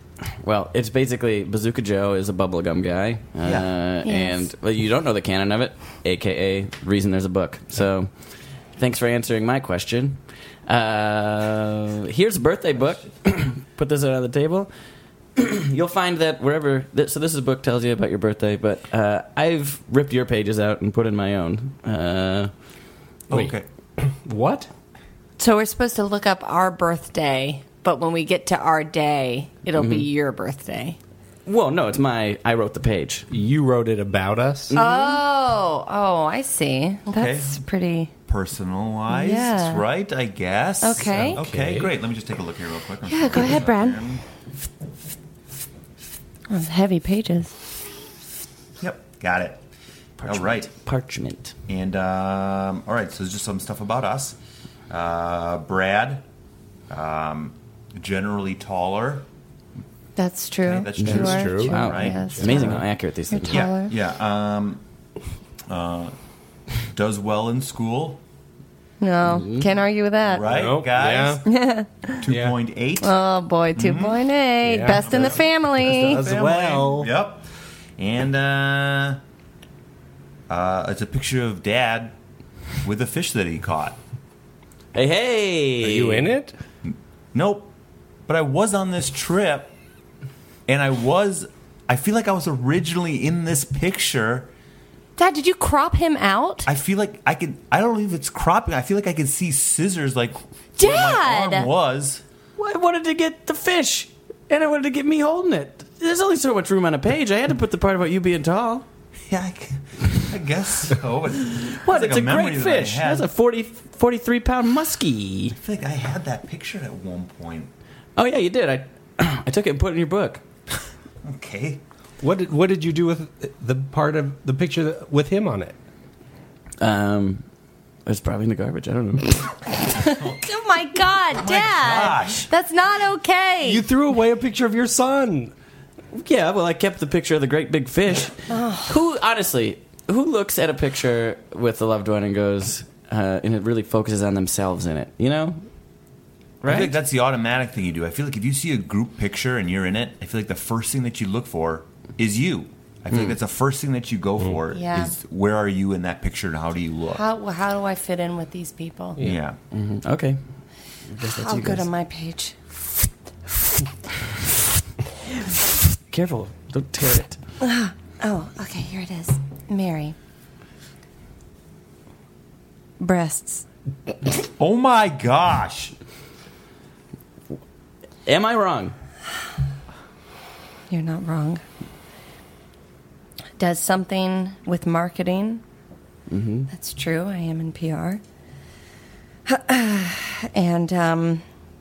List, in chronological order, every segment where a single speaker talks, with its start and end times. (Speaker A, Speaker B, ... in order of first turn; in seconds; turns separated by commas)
Speaker A: 0.4-8.1, Speaker B: 3.4-3.7, Speaker C: 4.0-4.5, Speaker A: 8.8-14.7, Speaker A: 15.4-22.5, Speaker B: 23.3-23.6, Speaker D: 23.3-24.7, Speaker C: 25.4-31.0, Speaker A: 29.8-30.1, Speaker A: 31.5-33.3, Speaker D: 33.3-34.8, Speaker A: 34.7-35.2, Speaker C: 34.7-38.1, Speaker B: 37.1-37.6, Speaker B: 38.3-44.2, Speaker C: 39.1-39.8, Speaker C: 40.8-41.4, Speaker D: 41.1-41.9, Speaker C: 43.1-44.0, Speaker C: 46.5-47.6, Speaker B: 48.8-49.6, Speaker A: 50.2-51.5, Speaker B: 50.2-50.7, Speaker B: 51.7-54.4, Speaker B: 54.9-56.2, Speaker B: 56.9-59.2, Speaker C: 60.2-62.8, Speaker B: 60.6-62.8, Speaker A: 61.0-63.6, Speaker D: 61.0-62.8, Speaker C: 63.3-63.9, Speaker B: 63.5-64.8, Speaker B: 65.7-66.2, Speaker B: 66.8-68.2, Speaker C: 69.0-70.5, Speaker A: 69.2-69.7, Speaker B: 70.2-71.5, Speaker D: 70.5-71.4, Speaker C: 71.5-72.2, Speaker B: 72.2-73.1, Speaker D: 72.3-72.5, Speaker C: 73.0-76.2, Speaker B: 73.8-74.3, Speaker D: 74.7-77.1, Speaker B: 75.0-77.4, Speaker B: 78.0-79.2, Speaker B: 80.5-82.1, Speaker B: 82.8-84.0, Speaker A: 84.9-86.3, Speaker D: 85.8-86.5, Speaker B: 87.3-87.7, Speaker B: 88.3-89.7, Speaker B: 90.7-94.5, Speaker C: 95.2-96.7, Speaker B: 96.7-102.2, Speaker C: 100.8-101.7, Speaker A: 102.6-108.9, Speaker B: 109.3-113.3, Speaker A: 111.7-115.6, Speaker B: 115.6-117.7, Speaker A: 118.2-120.4, Speaker B: 121.2-121.8, Speaker D: 122.2-125.8, Speaker A: 126.8-127.5, Speaker A: 128.1-129.6, Speaker C: 129.9-133.8, Speaker B: 131.3-132.5, Speaker D: 133.6-135.5, Speaker A: 136.1-145.6, Speaker C: 138.5-138.9, Speaker A: 146.6-146.9, Speaker B: 146.7-157.2, Speaker C: 154.7-155.1, Speaker C: 157.1-159.2, Speaker B: 159.2-159.6, Speaker A: 159.7-160.4, Speaker A: 161.1-161.9, Speaker C: 161.2-162.9, Speaker A: 165.4-167.4, Speaker C: 167.6-170.2, Speaker C: 173.0-173.7, Speaker B: 174.6-175.9, Speaker A: 178.3-178.9, Speaker C: 180.9-181.6, Speaker C: 183.6-185.6, Speaker A: 186.3-186.7, Speaker C: 186.7-188.2, Speaker C: 189.5-191.4